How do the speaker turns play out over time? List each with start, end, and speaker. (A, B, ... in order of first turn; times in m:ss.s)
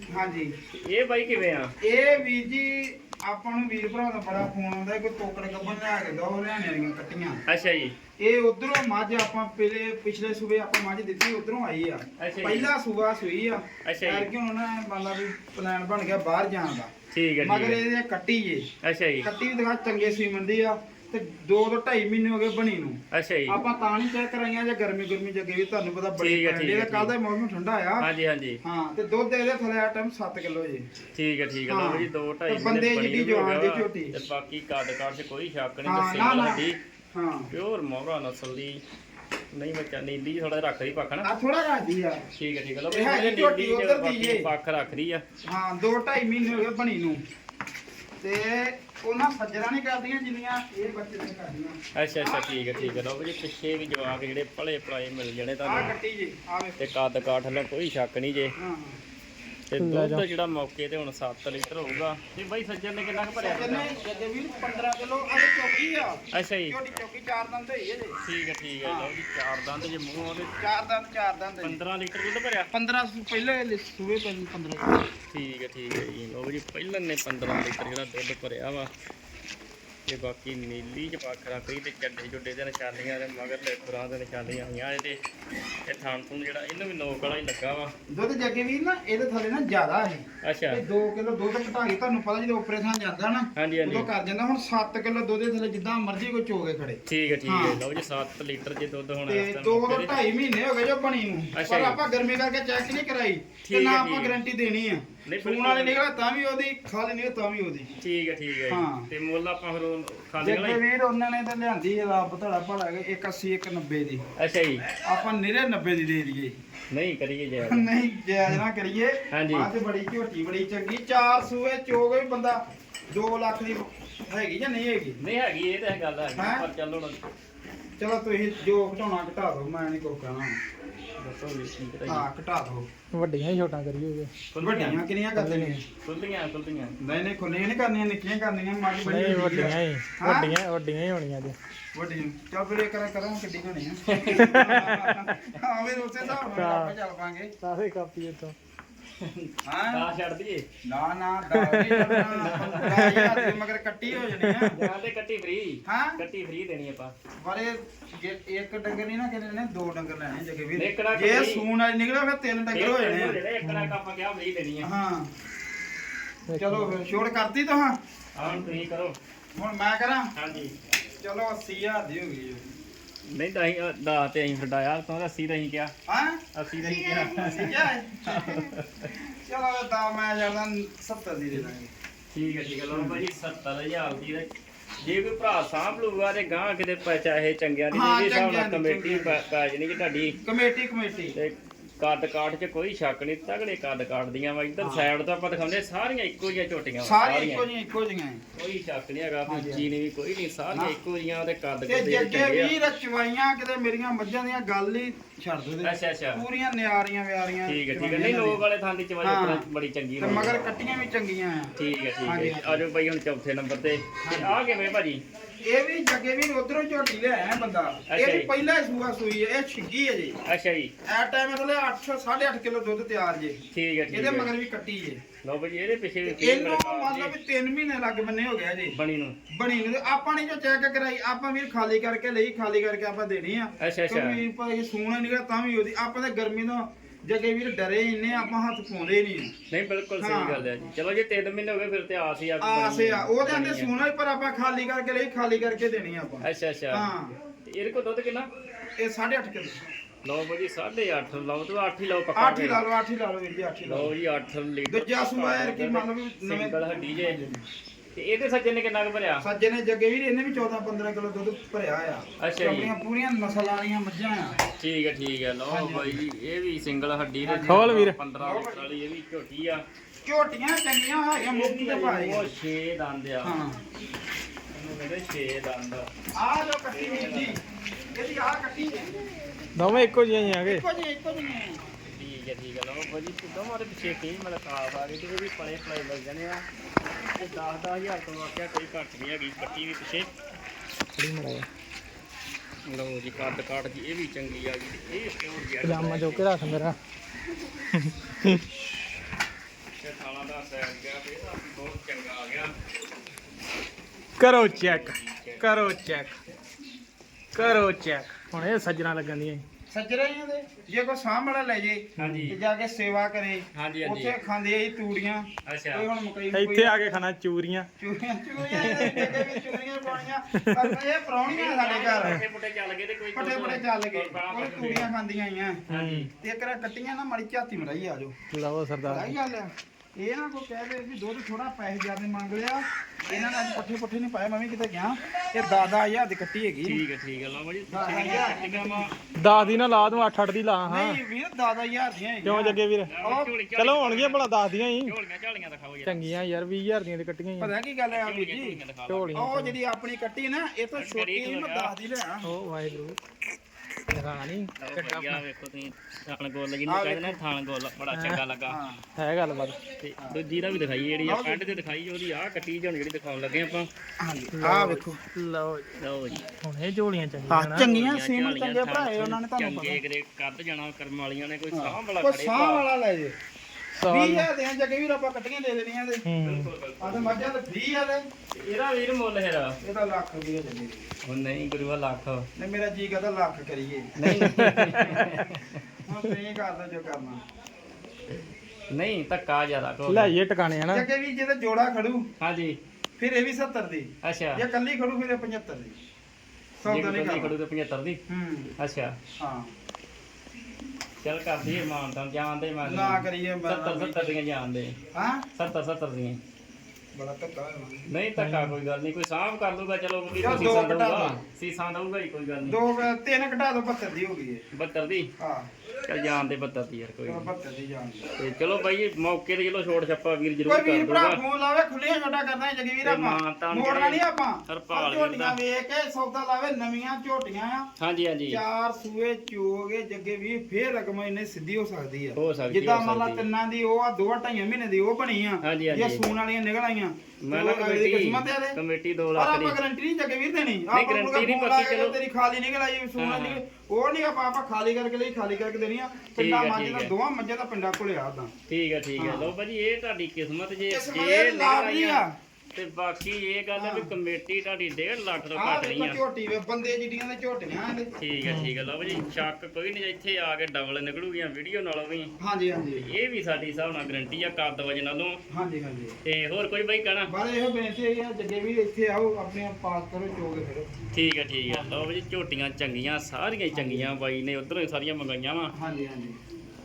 0:00.1-0:00.5 A
0:00.7-0:01.7 B
0:01.8-0:07.4 A
0:07.5-0:07.9 B
0:08.2-0:16.9 A
0:12.2-0:12.7 B
0:13.8-0:14.3 B
0:17.1-0:17.8 B
0:17.4-0:18.6 A
0:18.8-0:19.3 B
0:19.2-0:28.1 A
0:23.1-0:23.6 B
0:26.2-0:27.1 B
0:28.0-0:28.6 B
0:28.6-0:30.9 A
0:31.1-0:36.8 B
0:31.7-0:34.1 A
0:35.8-0:37.5 A
0:37.5-0:38.8 B
0:39.5-0:41.3 B
0:41.2-0:42.2 A
0:42.3-0:45.2 B
0:42.9-0:44.5 A
0:45.5-0:47.2 A
0:48.2-0:53.1 A
0:51.9-0:55.9 B
0:55.6-0:56.8 A
0:56.8-0:58.5 B
0:58.6-0:59.0 A
0:59.7-1:04.0 B
0:59.8-1:00.2 C
1:03.2-1:08.2 A
1:06.3-1:06.8 B
1:08.2-1:10.6 B
1:08.8-1:09.1 A
1:10.6-1:11.8 A
1:11.6-1:12.7 B
1:12.7-1:15.0 A
1:15.3-1:18.9 B
1:20.1-1:25.2 B
1:25.9-1:27.9 B
1:28.1-1:37.8 A
1:30.4-1:30.8 B
1:33.5-1:34.1 B
1:37.0-1:40.2 B
1:39.3-1:47.9 A
1:41.6-1:42.0 B
1:43.6-1:44.4 B
1:45.2-1:46.0 B
1:48.0-1:50.8 B
1:48.7-1:49.1 A
1:50.4-1:54.2 A
1:54.4-1:54.9 B
1:55.0-1:56.5 A
1:56.9-1:57.9 B
1:57.6-2:05.2 A
1:59.3-1:59.7 B
2:05.2-2:07.2 B
2:06.4-2:06.6 A
2:08.0-2:10.6 A
2:11.2-2:12.3 B
2:12.1-2:12.8 A
2:13.1-2:14.3 C
2:14.5-2:15.0 B
2:14.6-2:15.8 A
2:15.4-2:15.8 C
2:16.0-2:16.9 B
2:17.0-2:20.6 A
2:19.0-2:21.5 C
2:21.9-2:27.5 A
2:24.1-2:25.0 B
2:24.3-2:25.2 C
2:26.5-2:26.9 C
2:27.6-2:28.5 C
2:29.2-2:30.6 B
2:29.6-2:30.0 A
2:30.9-2:34.7 A
2:31.5-2:33.6 C
2:32.2-2:33.2 B
2:34.4-2:34.8 C
2:34.7-2:37.1 B
2:35.8-2:36.2 A
2:37.4-2:43.4 A
2:40.8-2:41.6 B
2:42.7-2:44.9 B
2:43.6-2:44.0 C
2:44.8-2:45.3 A
2:46.5-2:46.9 C
2:46.6-2:48.0 A
2:48.4-2:49.2 B
2:49.5-2:50.3 A
2:50.3-2:50.7 B
2:51.2-2:52.6 A
2:53.3-2:55.9 B
2:56.1-3:01.9 A
2:56.5-2:59.1 B
3:02.3-3:04.5 B
3:02.9-3:03.2 A
3:05.0-3:10.4 B
3:07.9-3:09.4 A
3:10.4-3:11.4 A
3:11.3-3:17.6 B
3:14.8-3:15.1 A
3:17.0-3:18.4 A
3:18.5-3:22.7 B
3:19.4-3:19.9 A
3:20.7-3:21.0 A
3:21.8-3:28.6 A
3:25.8-3:26.4 B
3:27.6-3:30.6 B
3:29.2-3:29.6 A
3:30.2-3:31.7 A
3:31.8-3:35.2 B
3:32.2-3:32.8 A
3:34.2-3:34.6 A
3:35.7-3:40.4 A
3:38.1-3:38.5 B
3:40.4-3:40.9 B
3:41.0-3:43.6 A
3:43.7-3:44.5 B
3:44.1-3:45.2 A
3:45.4-3:47.4 B
3:46.2-3:49.0 A
3:48.9-3:49.3 B
3:49.5-3:59.5 A
3:53.8-3:54.4 B
3:59.7-4:04.0 B
4:00.2-4:00.6 A
4:02.6-4:07.3 A
4:06.4-4:07.1 B
4:07.6-4:08.5 B
4:09.0-4:09.8 A
4:10.2-4:12.8 B
4:12.3-4:14.1 A
4:13.8-4:17.4 B
4:14.8-4:17.6 A
4:18.1-4:19.4 B
4:19.4-4:24.6 A
4:22.4-4:22.9 B
4:24.8-4:29.8 B
4:25.7-4:26.2 A
4:27.4-4:28.8 A
4:27.7-4:28.2 C
4:30.2-4:32.5 A
4:31.4-4:33.6 B
4:33.4-4:33.8 A
4:34.7-4:36.1 B
4:36.4-4:37.6 A
4:36.9-4:37.6 B
4:38.1-4:39.2 A
4:39.7-4:40.8 C
4:40.5-4:41.8 A
4:42.0-4:46.6 B
4:47.4-4:50.3 B
4:51.2-4:51.6 C
4:52.9-4:56.8 B
4:55.8-4:57.0 C
4:57.9-4:58.6 C
5:00.0-5:02.7 B
5:04.4-5:06.4 C
5:04.6-5:05.7 B
5:07.5-5:09.6 C
5:09.9-5:17.2 A
5:12.2-5:12.5 C
5:12.2-5:12.6 B
5:13.7-5:14.3 B
5:15.6-5:16.1 B
5:16.5-5:17.9 C
5:18.0-5:22.4 A
5:18.6-5:19.8 C
5:20.5-5:21.0 C
5:21.5-5:25.1 B
5:23.3-5:25.8 A
5:25.9-5:26.3 B
5:25.9-5:26.3 C
5:26.4-5:28.3 A
5:28.5-5:29.4 C
5:29.0-5:37.0 A
5:36.8-5:40.3 B
5:37.9-5:39.1 A
5:39.4-5:41.2 C
5:40.8-5:43.5 A
5:42.4-5:43.1 C
5:43.1-5:46.4 B
5:43.7-5:45.1 C
5:46.0-5:47.7 C
5:47.6-5:48.8 A
5:48.1-5:49.5 B
5:49.1-5:49.8 C
5:49.3-5:52.5 A
5:51.0-5:51.9 B
5:52.4-5:53.2 C
5:54.1-5:55.4 C
5:54.8-5:58.8 B
5:56.9-5:57.4 A
5:58.1-5:58.4 C
5:58.7-5:59.0 A
5:59.2-5:59.8 C
6:00.0-6:03.9 B
6:01.2-6:01.8 A
6:04.2-6:05.2 A
6:04.5-6:06.0 C
6:06.0-6:06.5 B
6:06.6-6:07.9 C
6:07.5-6:10.0 A
6:07.7-6:12.8 B
6:11.7-6:13.3 A
6:14.0-6:14.5 C
6:14.1-6:16.2 A
6:16.2-6:16.7 C
6:16.4-6:17.5 B
6:17.0-6:18.2 A
6:18.5-6:19.8 B
6:19.8-6:21.0 A
6:21.2-6:22.5 B
6:22.6-6:27.4 A
6:24.2-6:25.8 B
6:24.3-6:25.2 C
6:28.9-6:30.3 B
6:30.0-6:31.1 C
6:30.9-6:32.2 A
6:32.4-6:32.8 B
6:33.2-6:36.0 A
6:34.2-6:34.6 B
6:36.8-6:37.5 A
6:36.8-6:38.2 B
6:38.3-6:38.7 A
6:38.8-6:39.2 B
6:39.4-6:39.7 A
6:41.2-6:44.9 B
6:42.8-6:44.3 A
6:45.1-6:45.4 A
6:45.5-6:46.4 B
6:47.1-6:48.0 A
6:48.1-6:52.8 B
6:48.4-6:48.8 C
6:50.4-6:51.4 A
6:52.6-6:54.6 A
6:54.7-6:55.3 B
6:55.4-6:55.7 A
6:56.0-6:57.5 B
6:57.2-6:58.2 A
6:58.4-7:01.4 B
7:00.6-7:07.9 A
7:03.0-7:05.6 B
7:08.0-7:08.6 B
7:08.5-7:18.8 A
7:12.4-7:13.4 B
7:15.6-7:16.2 B
7:17.4-7:19.8 B
7:19.3-7:28.5 A
7:20.9-7:22.2 B
7:23.2-7:23.6 B
7:26.4-7:27.1 B
7:28.7-7:36.2 B
7:29.2-7:29.5 A
7:30.9-7:32.4 A
7:33.7-7:34.1 A
7:35.5-7:38.1 A
7:38.2-7:42.3 B
7:38.4-7:38.7 C
7:42.4-7:43.1 A
7:43.0-7:45.4 B
7:45.5-7:46.2 A
7:46.2-7:47.3 B
7:47.3-7:51.0 A
7:51.1-7:55.7 B
7:53.7-7:54.1 A
7:55.7-7:56.4 A